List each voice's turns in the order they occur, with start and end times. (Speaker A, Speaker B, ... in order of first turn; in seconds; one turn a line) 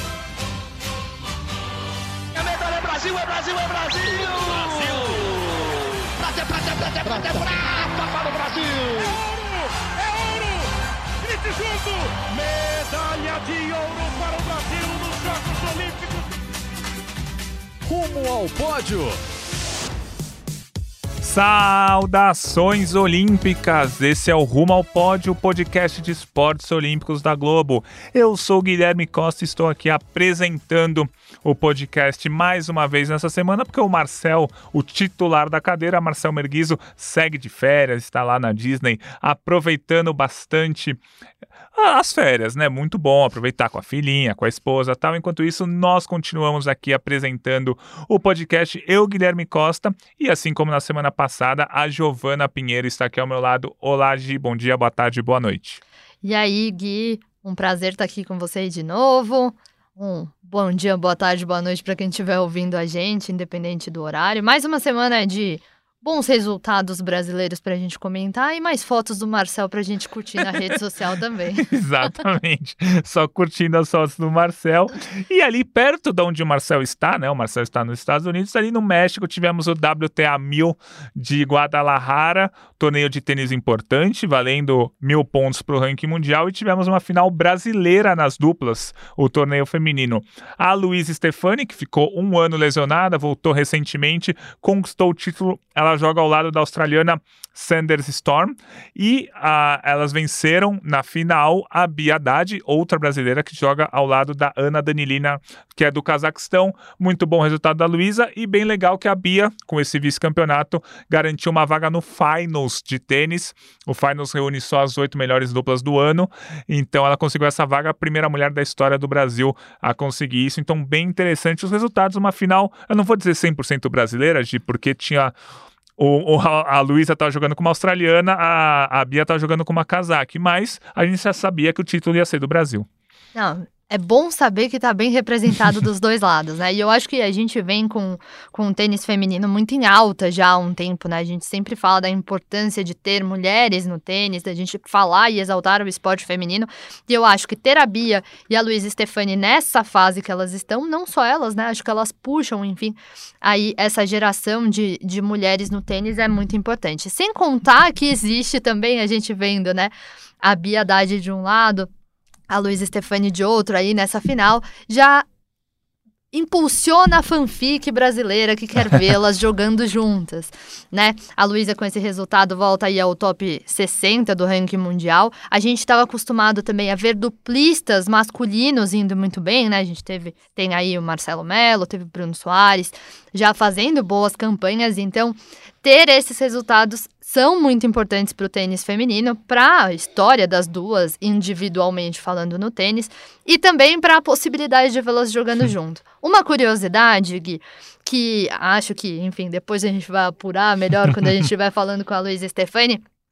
Speaker A: 2.4-5.1
Speaker B: 4.0-5.5
Speaker A: 6.2-9.1
Speaker B: 8.9-16.3
Speaker B: 17.9-19.2
Speaker C: 21.2-41.0
Speaker C: 41.7-55.8
Speaker D: 56.2-71.7
Speaker C: 71.6-125.3
Speaker C: 126.0-132.9
Speaker D: 133.3-161.9
Speaker D: 162.5-165.2
Speaker D: 166.3-203.0